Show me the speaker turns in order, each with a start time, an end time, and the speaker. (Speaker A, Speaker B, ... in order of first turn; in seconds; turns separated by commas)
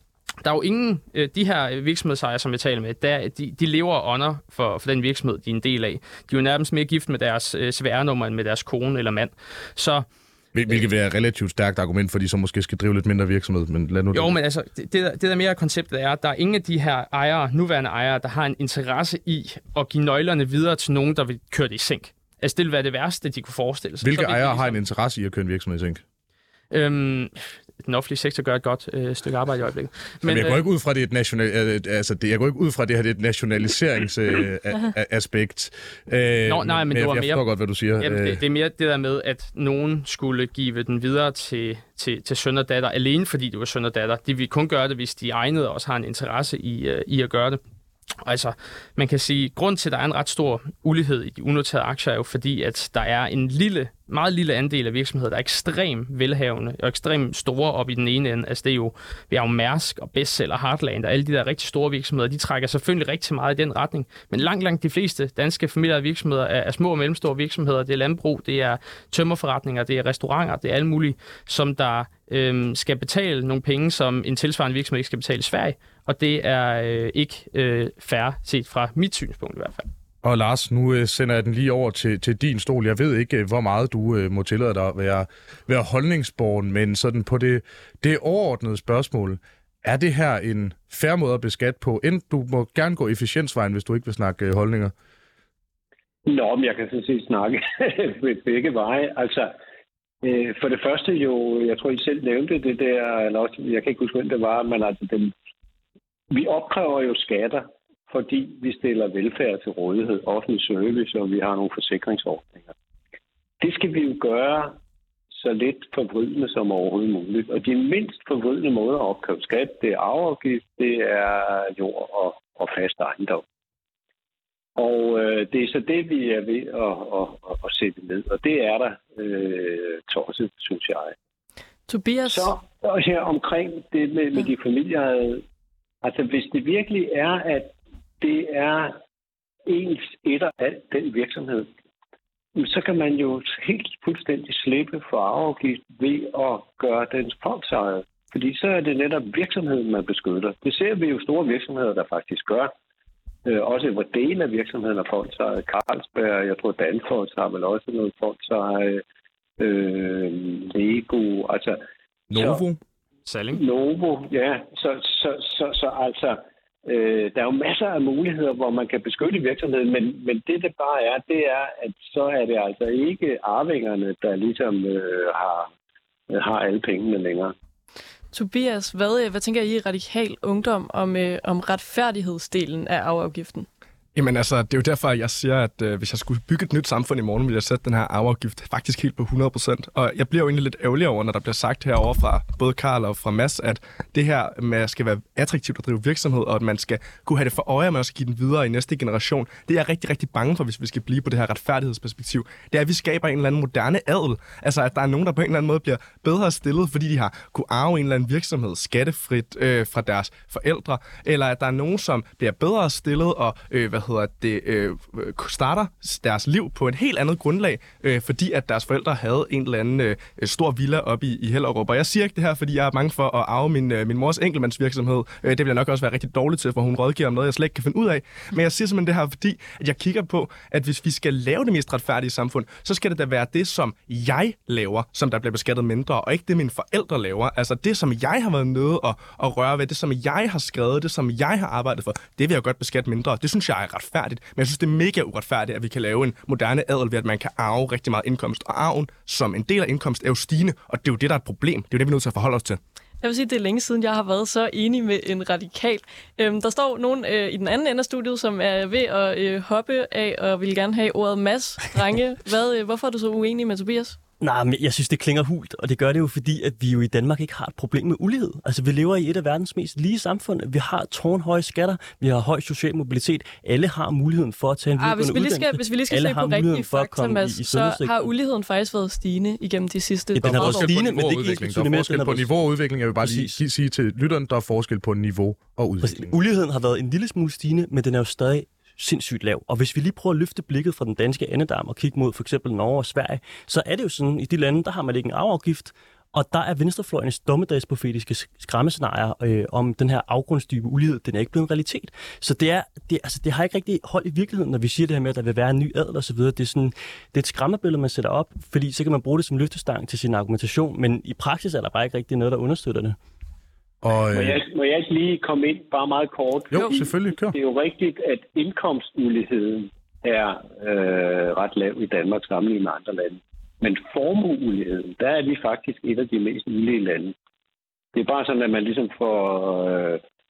Speaker A: 0.4-10.0, Speaker B: 10.5-14.3, Speaker A: 14.1-24.8, Speaker B: 24.0-26.0, Speaker A: 26.7-30.6, Speaker B: 30.2-38.4, Speaker A: 36.5-37.4, Speaker A: 38.0-47.6, Speaker A: 48.2-79.9, Speaker B: 80.2-94.9, Speaker C: 96.2-99.5, Speaker C: 100.2-105.3, Speaker C: 106.3-112.7, Speaker C: 113.6-114.8, Speaker C: 115.3-123.4, Speaker C: 124.8-131.1, Speaker D: 131.9-132.5, Speaker C: 132.2-135.4, Speaker C: 136.0-139.0, Speaker C: 139.7-141.7, Speaker C: 142.6-152.7, Speaker C: 153.4-159.0, Speaker C: 159.6-161.8, Speaker B: 162.3-162.8, Speaker C: 162.3-162.6, Speaker A: 163.2-163.6, Speaker C: 163.5-175.7, Speaker C: 176.3-177.5, Speaker D: 178.3-183.7, Speaker E: 184.1-252.8, Speaker D: 253.2-264.2, Speaker F: 264.4-278.3, Speaker D: 275.0-280.9, Speaker F: 280.4-282.5, Speaker B: 280.4-286.4, Speaker F: 283.2-283.6, Speaker F: 286.0-313.1, Speaker B: 314.0-314.6, Speaker C: 314.3-327.3, Speaker B: 316.7-317.6, Speaker C: 328.1-330.2